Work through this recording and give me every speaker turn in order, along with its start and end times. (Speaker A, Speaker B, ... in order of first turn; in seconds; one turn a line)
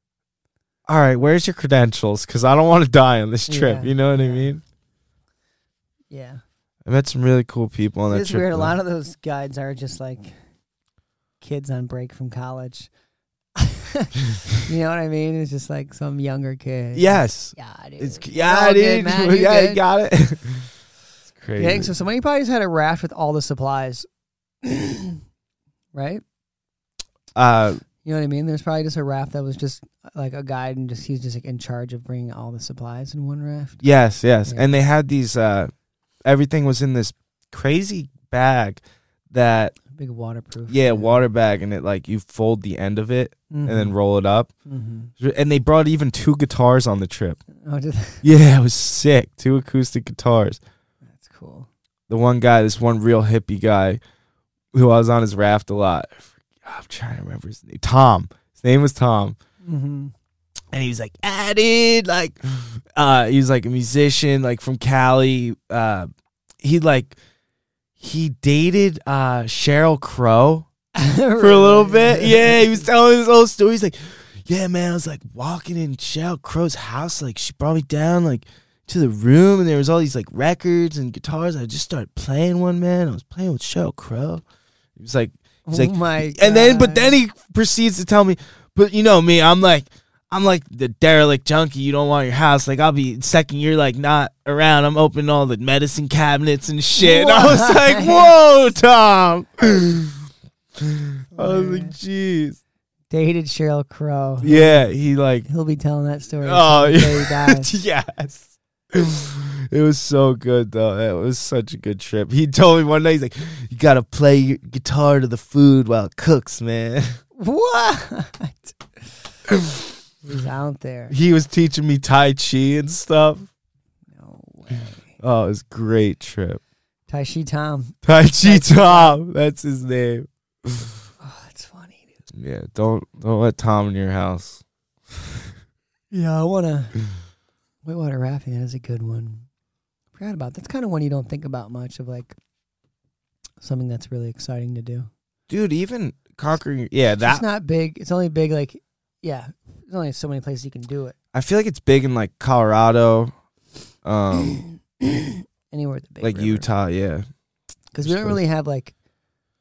Speaker A: 0.9-4.6
Speaker B: 3.5-4.5
Speaker B: 6.1-6.4
Speaker A: 6.9-8.8
Speaker B: 8.1-10.4
Speaker B: 11.4-12.9
Speaker B: 13.6-19.8
Speaker A: 16.9-20.7
Speaker A: 21.3-21.9
Speaker B: 21.6-24.1
Speaker B: 24.6-25.2
Speaker B: 25.9-26.2
Speaker A: 27.4-27.8
Speaker B: 28.0-33.8
Speaker A: 33.8-35.7
Speaker B: 34.5-34.8
Speaker A: 36.2-39.8
Speaker B: 39.9-41.3
Speaker A: 40.7-44.5
Speaker B: 43.5-44.0
Speaker B: 44.7-45.1
Speaker A: 45.2-47.4
Speaker B: 47.6-48.2
Speaker A: 48.2-50.6
Speaker B: 51.1-51.7
Speaker A: 52.1-54.0
Speaker A: 54.7-59.4
Speaker B: 59.6-60.1
Speaker A: 60.7-66.1
Speaker A: 66.6-67.2
Speaker A: 68.0-70.7
Speaker B: 71.0-72.8
Speaker A: 71.4-84.4
Speaker A: 85.0-100.2
Speaker B: 85.7-87.2
Speaker B: 97.0-98.3
Speaker A: 100.8-102.6
Speaker B: 101.3-102.0
Speaker B: 103.1-104.8
Speaker A: 104.4-105.5
Speaker B: 105.5-107.7
Speaker A: 106.4-117.2
Speaker B: 117.4-119.3
Speaker A: 119.5-119.8
Speaker B: 120.2-121.1
Speaker A: 121.1-123.5
Speaker B: 124.1-125.2
Speaker A: 125.2-126.6
Speaker B: 127.1-129.2
Speaker A: 128.1-130.9
Speaker B: 131.2-132.2
Speaker A: 132.3-135.4
Speaker B: 136.1-137.0
Speaker B: 137.8-139.5
Speaker B: 140.2-142.4
Speaker B: 143.6-145.1
Speaker A: 145.5-147.4
Speaker B: 147.2-151.2
Speaker A: 151.3-153.3
Speaker A: 154.0-154.6
Speaker B: 154.3-156.7
Speaker A: 156.2-157.2
Speaker B: 157.9-158.9
Speaker A: 158.0-158.4